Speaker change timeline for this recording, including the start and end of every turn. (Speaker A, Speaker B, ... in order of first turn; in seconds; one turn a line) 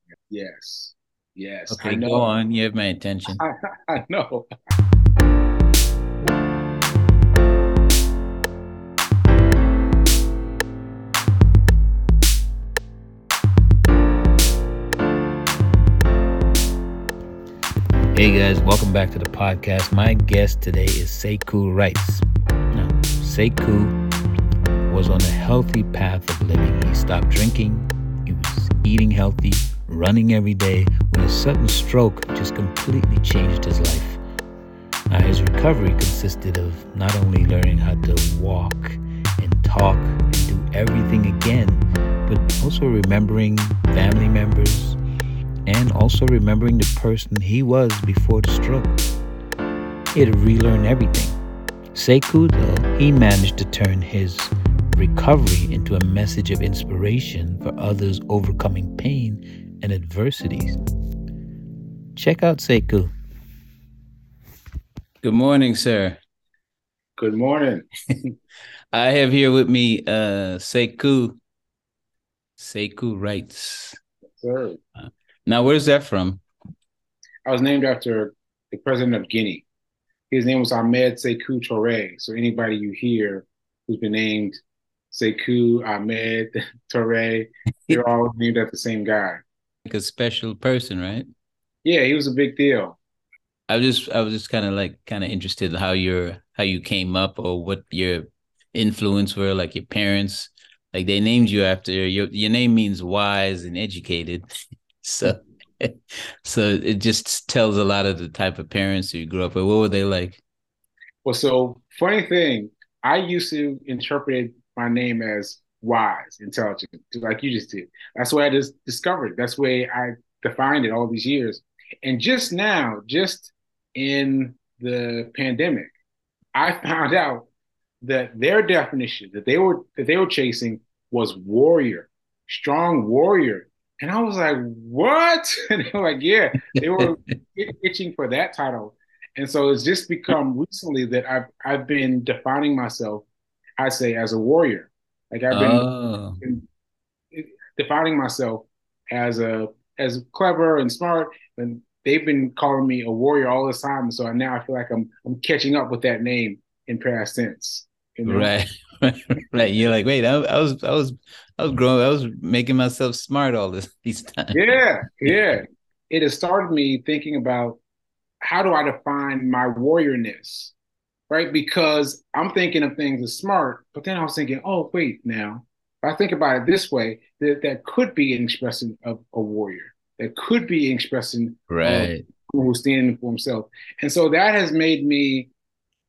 Speaker A: 0.3-2.2
Speaker B: 1.7-3.4
Speaker A: 3.3-4.5
Speaker B: 18.1-24.0
Speaker B: 24.9-34.2
Speaker B: 35.1-45.0
Speaker B: 45.6-49.0
Speaker B: 50.1-51.4
Speaker B: 51.9-60.8
Speaker B: 62.1-63.1
Speaker B: 65.2-66.2
Speaker A: 67.2-67.9
Speaker B: 68.9-71.4
Speaker B: 72.6-74.0
Speaker A: 74.4-74.8
Speaker B: 75.0-76.4
Speaker A: 77.5-79.7
Speaker A: 80.3-84.5
Speaker A: 85.1-89.4
Speaker B: 89.8-91.3
Speaker A: 91.8-93.0
Speaker B: 93.7-104.4
Speaker B: 105.0-110.4
Speaker A: 111.2-125.9
Speaker A: 126.5-127.5
Speaker A: 128.0-143.2
Speaker B: 136.7-137.1
Speaker A: 143.8-145.9
Speaker B: 145.5-146.4
Speaker A: 147.3-158.5
Speaker B: 158.2-164.6
Speaker A: 164.5-167.8
Speaker A: 168.4-170.7
Speaker A: 171.3-185.5
Speaker B: 181.7-182.2